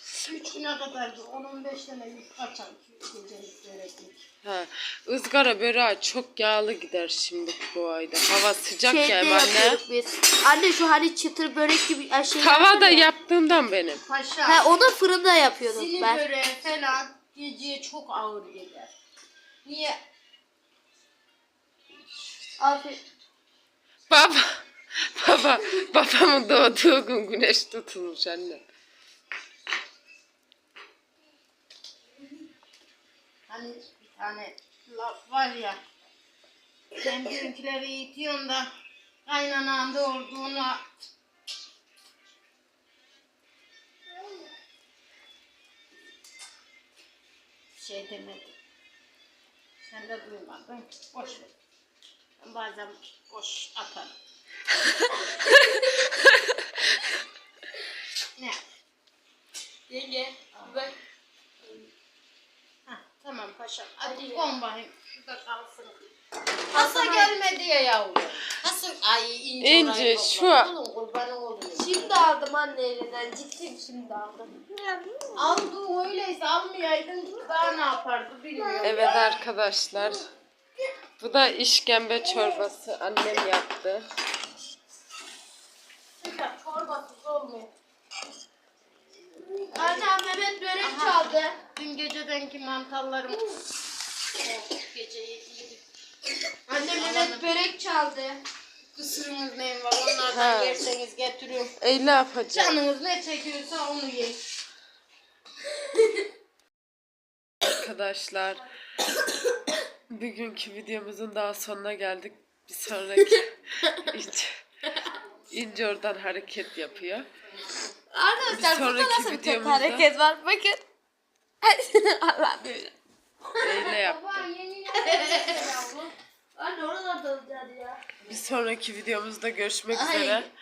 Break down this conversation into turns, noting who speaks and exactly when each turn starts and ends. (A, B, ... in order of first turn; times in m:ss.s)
0:00.2-0:04.2 A
0:04.4-0:09.8 B
0:08.8-0:13.1 C
0:12.4-0:14.0 B
0:14.0-0:14.7 A
0:14.4-0:16.2 C
0:15.6-0:18.9 A
0:19.6-0:20.0 A
0:22.6-0:23.0 C
0:24.1-0:28.6 B
0:33.5-0:35.8 A
0:36.9-0:38.7 A
0:39.2-0:40.8 A
0:47.7-0:48.5 A
0:49.8-0:51.5 A
0:52.4-0:54.1 A
0:55.3-0:56.1 C
0:59.9-1:01.0 C
1:00.6-1:00.9 A
1:02.8-1:06.0 A
1:04.0-1:04.5 C
1:06.7-1:12.3 A
1:06.7-1:07.3 C
1:09.6-1:10.7 B
1:11.8-1:14.5 C
1:15.3-1:19.4 A
1:18.8-1:20.2 B
1:21.2-1:24.1 B
1:26.2-1:27.7 A
1:29.7-1:30.1 A
1:29.7-1:31.6 C
1:30.8-1:33.5 A
1:34.4-1:35.8 A
1:36.7-1:37.5 A
1:36.7-1:38.4 C
1:38.9-1:41.7 A
1:40.2-1:40.9 B
1:41.8-1:42.8 B
1:42.5-1:44.4 A
1:47.6-1:48.6 B
1:50.1-1:54.6 B
1:55.5-1:57.2 B
1:58.1-2:00.8 C
1:58.5-2:00.1 B
2:01.6-2:02.9 C
2:03.5-2:03.9 C
2:03.6-2:04.4 B
2:03.8-2:06.1 A
2:05.0-2:05.7 C
2:06.5-2:08.0 C
2:08.2-2:10.5 B
2:09.9-2:10.5 C